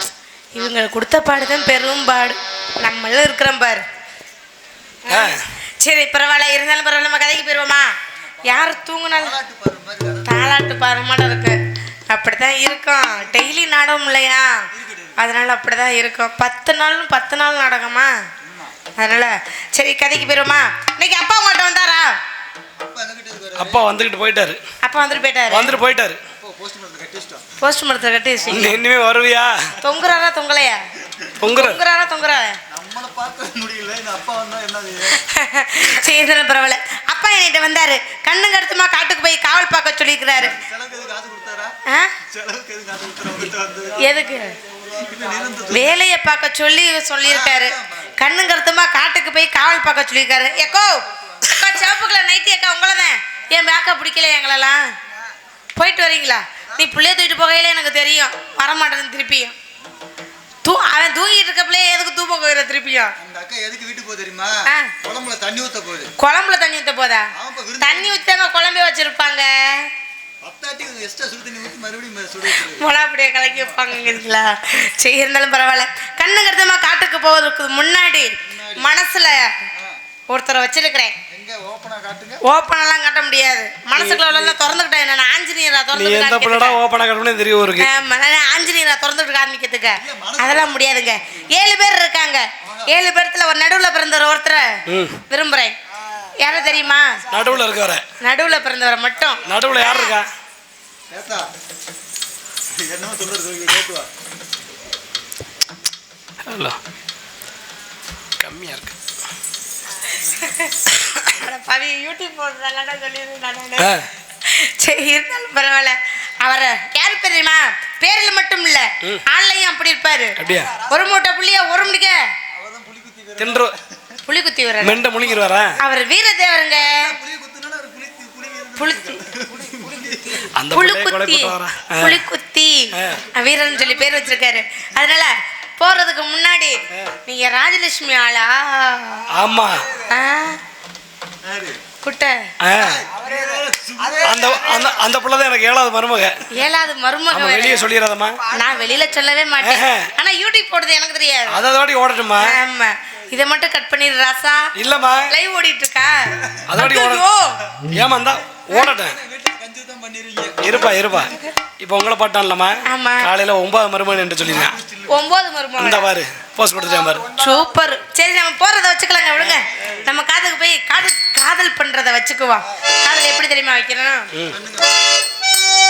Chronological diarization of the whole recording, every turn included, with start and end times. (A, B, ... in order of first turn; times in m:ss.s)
0:00.6-0:03.8 A
0:05.1-0:07.9 A
0:05.1-0:05.4 B
0:08.4-0:09.4 A
0:09.2-0:10.3 C
0:10.3-0:18.1 A
0:14.8-0:15.2 C
0:18.4-0:18.7 C
0:19.0-0:22.2 A
0:22.8-0:23.9 C
0:23.6-0:24.6 B
0:24.8-0:25.8 A
0:25.5-0:26.2 B
0:26.4-0:27.4 C
0:27.6-0:28.8 A
0:28.5-0:29.7 B
0:29.8-0:30.8 A
0:31.4-0:31.8 B
0:31.4-0:32.6 A
0:32.7-0:35.2 C
0:35.1-0:40.6 A
0:40.5-0:41.7 C
0:41.9-0:42.2 A
0:42.3-0:46.0 C
0:44.0-0:44.6 A
0:45.7-0:54.8 A
0:47.2-0:48.1 C
0:51.1-0:51.6 C
0:55.8-0:59.6 A
1:00.6-1:03.2 A
1:03.2-1:06.1 C
1:04.7-1:04.9 A
1:06.2-1:07.3 A
1:07.4-1:08.2 C
1:07.8-1:09.9 A
1:10.4-1:12.8 C
1:12.5-1:19.5 A
1:18.5-1:18.8 C
1:20.3-1:21.2 A
1:21.3-1:22.4 C
1:22.4-1:26.8 A
1:25.9-1:27.9 B
1:27.8-1:35.8 A
1:30.0-1:30.7 C
1:34.9-1:35.2 B
1:36.4-1:37.2 A
1:37.3-1:38.0 B
1:38.2-1:40.2 A
1:39.4-1:40.3 B
1:41.1-1:41.5 C
1:42.7-1:44.1 C
1:46.5-1:46.8 B
1:48.4-1:48.9 B
1:50.1-2:02.2 A
1:53.8-1:54.1 B
2:00.4-2:00.8 B
2:02.5-2:03.8 C
2:03.4-2:03.8 B
2:04.3-2:05.1 A
2:04.8-2:05.8 B
2:05.8-2:07.1 A
2:06.9-2:10.5 C
2:08.8-2:09.2 A
2:10.6-2:12.2 B
2:10.7-2:19.3 A
2:19.3-2:19.8 B
2:20.0-2:20.6 A
2:21.4-2:21.8 C
2:22.0-2:22.4 A
2:22.6-2:23.0 B
2:22.8-2:24.8 C
2:24.2-2:26.4 B
2:26.5-2:27.9 A
2:27.3-2:28.4 B
2:28.5-2:31.6 A
2:29.6-2:30.1 B
2:31.5-2:32.6 B
2:32.4-2:34.7 A
2:34.8-2:35.3 B
2:35.3-2:37.6 A
2:36.7-2:37.2 B
2:37.8-2:39.2 B
2:38.9-2:41.3 C
2:40.6-2:44.8 B
2:42.8-2:43.3 A
2:44.5-2:45.2 C
2:45.1-2:46.1 A
2:45.8-2:47.2 B
2:46.9-2:47.6 C
2:47.4-2:54.3 A
2:54.5-2:54.9 C